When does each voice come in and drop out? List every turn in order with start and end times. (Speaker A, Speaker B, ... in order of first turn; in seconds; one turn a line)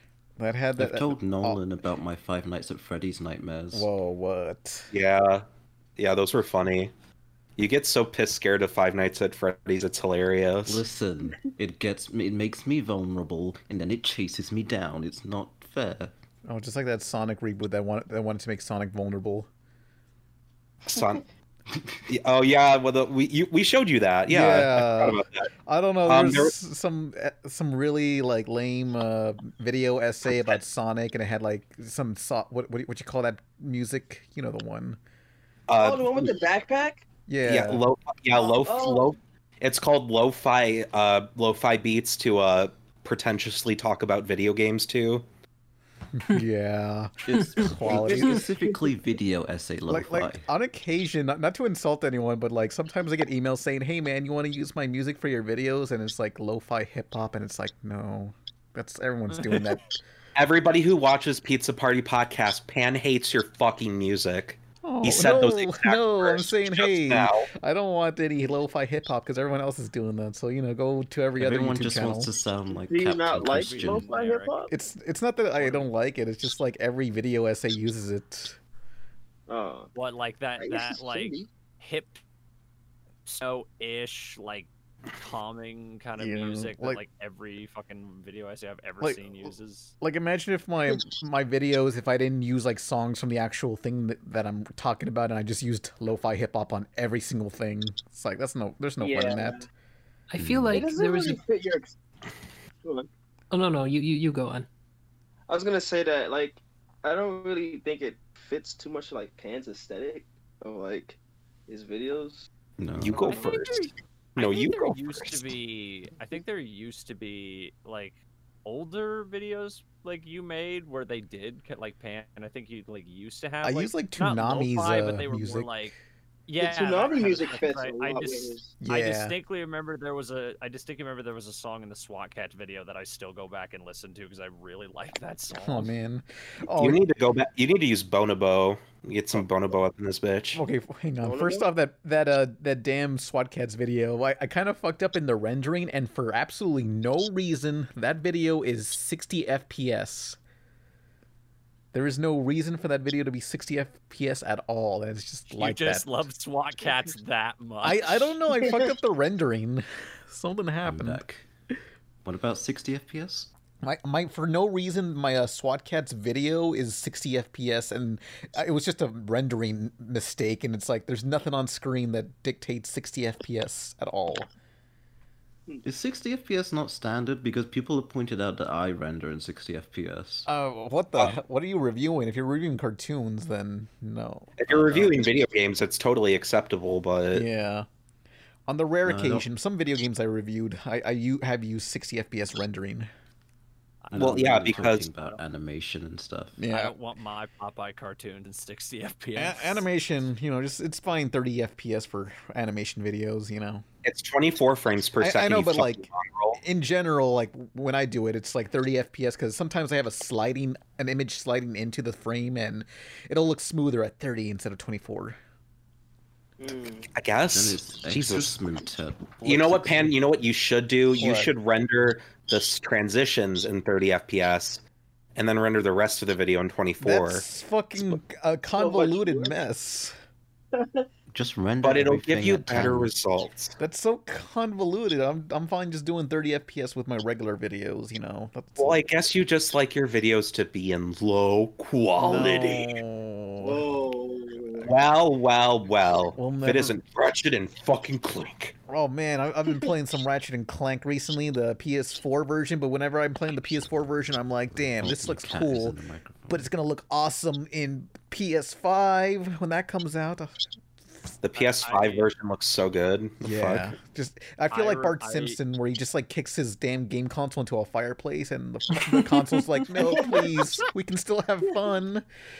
Speaker A: 0.4-1.6
Speaker B: 0.8-3.9
Speaker A: 3.7-4.9
Speaker C: 4.9-5.4
Speaker C: 6.0-6.9
Speaker C: 7.6-10.8
Speaker B: 10.7-16.1
Speaker A: 16.5-19.5
Speaker C: 20.9-21.2
Speaker C: 22.1-25.5
Speaker A: 24.3-35.0
Speaker C: 26.0-26.5
Speaker C: 35.7-36.3
Speaker D: 35.8-37.0
Speaker A: 37.3-37.9
Speaker C: 37.4-45.2
Speaker D: 38.3-39.1
Speaker A: 46.1-48.5
Speaker B: 47.2-50.5
Speaker A: 49.9-59.9
Speaker C: 60.4-67.5
Speaker A: 64.8-72.3
Speaker B: 71.3-74.1
Speaker D: 72.7-74.7
Speaker E: 73.5-74.5
Speaker A: 74.7-78.6
Speaker E: 75.6-75.9
Speaker D: 79.5-79.9
Speaker E: 79.9-82.2
Speaker D: 80.6-81.5
Speaker E: 83.2-89.9
Speaker A: 86.2-87.0
Speaker A: 89.0-99.6
Speaker D: 99.0-99.7
Speaker F: 100.3-101.4
Speaker B: 100.4-100.8
Speaker D: 100.7-101.9
Speaker D: 102.8-103.1
Speaker F: 103.5-104.7
Speaker D: 105.5-112.5
Speaker B: 112.8-113.3
Speaker C: 113.0-113.8
Speaker D: 113.1-113.8
Speaker E: 113.2-125.9
Speaker C: 114.4-115.5
Speaker A: 123.6-126.0
Speaker E: 126.5-135.9
Speaker D: 126.6-128.7
Speaker A: 128.8-129.3
Speaker A: 135.5-137.0
Speaker C: 136.8-140.6
Speaker A: 140.5-150.4
Speaker D: 141.2-141.7
Speaker A: 151.9-156.1
Speaker E: 155.5-158.4
Speaker A: 157.8-161.2
Speaker B: 160.8-161.4
Speaker B: 162.2-163.5
Speaker A: 163.8-174.5
Speaker B: 175.8-180.5
Speaker A: 180.5-185.1
Speaker C: 184.6-187.4
Speaker A: 187.3-187.9
Speaker A: 188.7-193.1
Speaker B: 189.0-189.5
Speaker E: 194.0-195.4
Speaker B: 194.1-196.6
Speaker C: 194.1-195.1
Speaker A: 196.6-196.9
Speaker E: 196.7-199.8
Speaker A: 199.3-203.8
Speaker C: 204.0-206.6
Speaker A: 205.2-206.1
Speaker A: 206.6-215.4
Speaker D: 216.6-217.1
Speaker C: 217.1-218.6
Speaker B: 217.5-220.1
Speaker C: 219.4-224.8
Speaker A: 221.2-221.5
Speaker C: 225.3-227.4
Speaker A: 227.0-230.1
Speaker D: 228.7-229.6
Speaker D: 230.7-231.1
Speaker B: 231.3-233.1
Speaker C: 231.8-233.8
Speaker A: 233.8-239.0
Speaker C: 238.8-242.9
Speaker A: 242.2-243.8
Speaker D: 243.6-244.9
Speaker C: 244.8-248.7
Speaker A: 246.3-247.0
Speaker A: 248.9-260.6
Speaker B: 255.0-256.7
Speaker C: 261.4-263.9
Speaker E: 261.6-262.3
Speaker A: 263.4-272.2
Speaker E: 264.7-265.6
Speaker D: 270.1-270.4